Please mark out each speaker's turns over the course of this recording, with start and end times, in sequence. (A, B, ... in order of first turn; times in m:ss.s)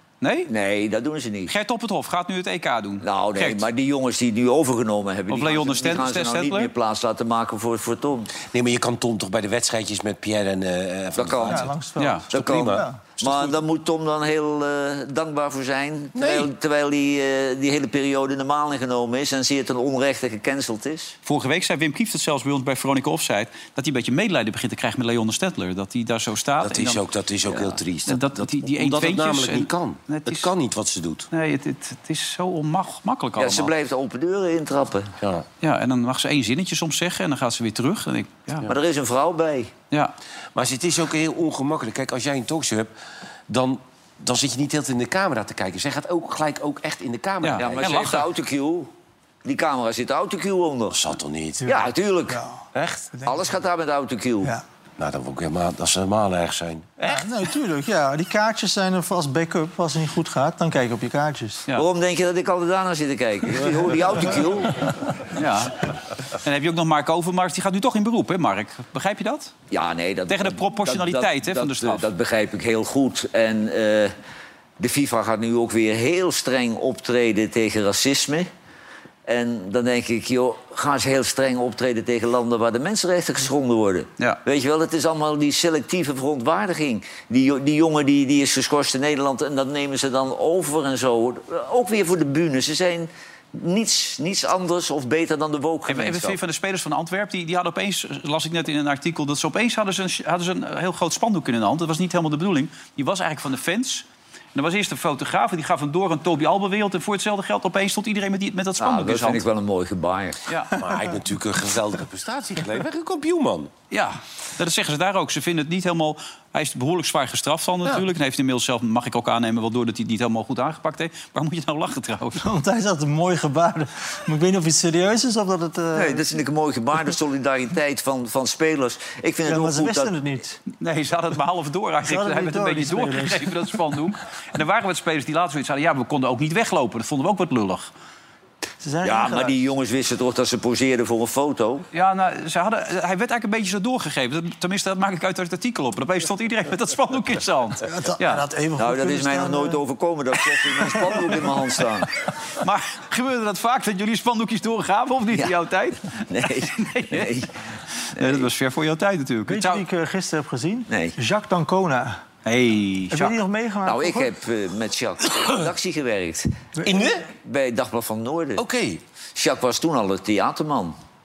0:00.2-0:00.5 A
0:00.5-0:01.5 B
0:01.5-0:03.7 A
0:03.0-0:08.3 B
0:05.3-0:06.7 A
0:08.5-0:11.7 C
0:11.2-0:11.7 B
0:11.4-0:13.0 D
0:12.0-0:12.2 A
0:12.3-0:13.6 C
0:12.3-0:21.2 B
0:16.1-0:16.5 C
0:21.2-0:27.0 A
0:26.6-0:31.3 C
0:28.1-0:30.5 A
0:31.3-0:33.7 A
0:33.4-0:35.1 B
0:35.2-0:35.4 C
0:35.6-0:38.7 A
0:38.7-0:39.7 B
0:40.5-0:42.9 C
0:43.5-0:47.9 C
0:47.4-0:48.3 A
0:47.6-0:48.9 B
0:49.4-0:51.0 B
0:50.9-0:51.7 C
0:51.6-0:52.6 D
0:51.6-0:52.4 B
0:52.7-0:53.1 C
0:53.2-0:54.5 B
0:55.0-0:57.3 C
0:57.1-1:01.6 D
1:01.7-1:04.9 B
1:05.3-1:05.8 A
1:06.4-1:09.5 A
1:09.7-1:14.1 B
1:10.3-1:12.0 A
1:14.8-1:18.5 B
1:19.2-1:36.4 B
1:35.9-1:49.4 A
1:48.8-1:50.4 B
1:50.8-1:53.7 C
1:53.9-2:02.4 A
2:02.4-2:06.2 D
2:05.9-2:10.1 B
2:09.4-2:10.6 D
2:10.8-2:17.9 A
2:12.0-2:13.6 D
2:18.8-2:19.6 D
2:19.0-2:21.8 B
2:21.9-2:28.4 A
2:27.9-2:29.8 D
2:28.8-2:32.1 B
2:32.6-2:37.4 A
2:36.3-2:37.5 B
2:38.1-2:39.8 A
2:38.2-2:38.4 B
2:39.5-2:42.2 D
2:40.9-2:41.2 B
2:42.4-2:43.4 A
2:43.1-2:44.3 D
2:43.8-2:46.5 B
2:46.8-2:47.2 C
2:47.4-2:48.6 B
2:48.6-2:49.0 C
2:49.4-2:51.0 B